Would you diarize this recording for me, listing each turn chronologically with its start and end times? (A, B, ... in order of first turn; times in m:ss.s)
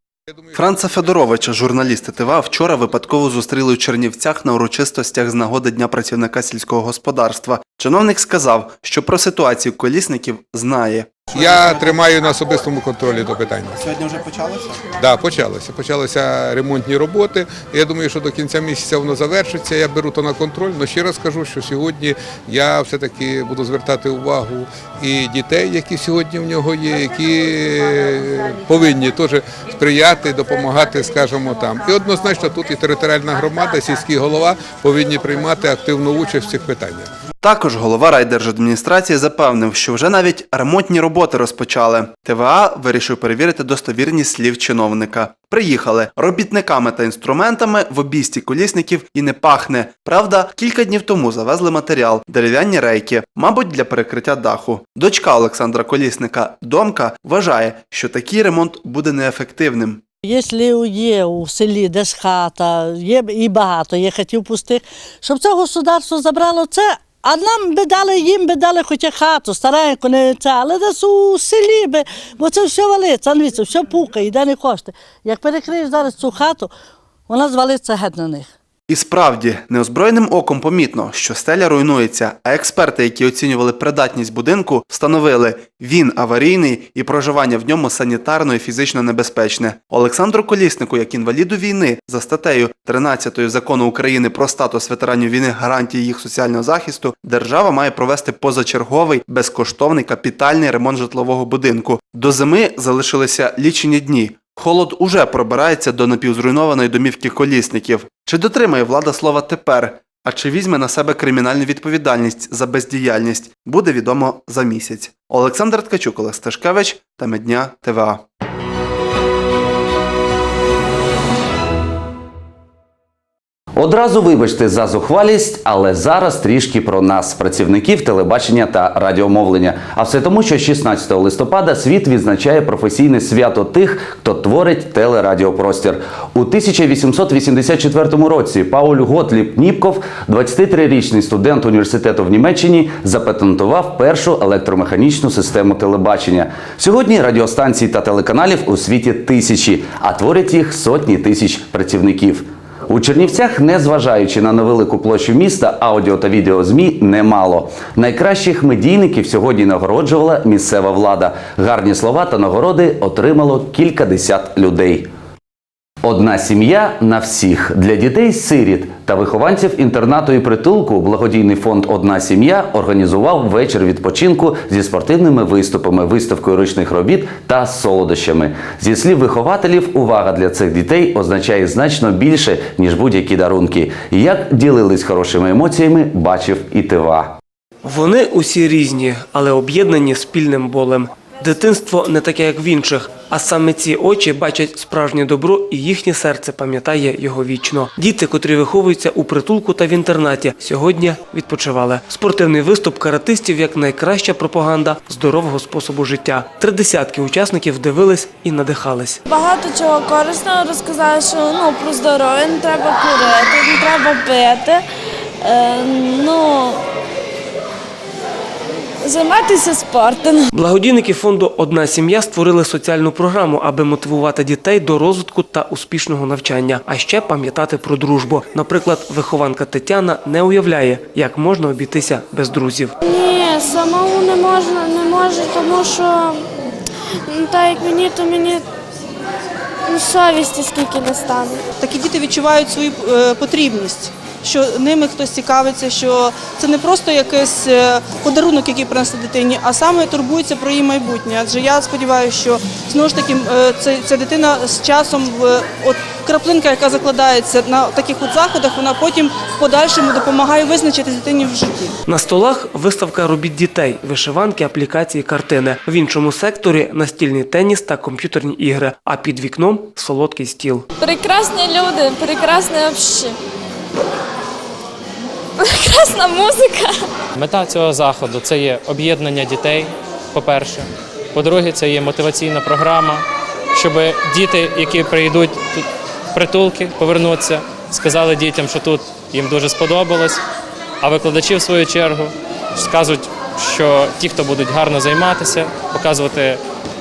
0:00.3-0:00.6 A
0:00.5-0:11.9 B
0:11.3-0:13.9 A
0:13.8-0:14.9 B
0:14.9-0:37.1 A
0:37.4-1:00.0 B
1:00.2-1:16.7 C
1:17.3-1:18.5 C
1:18.9-1:58.2 B
2:03.8-2:45.1 D
2:46.0-3:07.3 D
3:07.8-3:29.2 E
3:29.3-3:34.8 F
3:35.4-3:36.8 F
3:39.0-3:40.5 F
3:40.5-3:52.9 E
3:53.0-3:56.5 F
3:57.3-3:58.6 F
3:59.9-4:01.6 F
4:01.8-4:21.9 G
4:22.0-4:30.8 E
4:31.0-4:33.4 F
4:35.6-4:37.1 F
4:37.4-4:43.2 H
4:43.7-4:50.4 H
4:51.0-4:56.6 H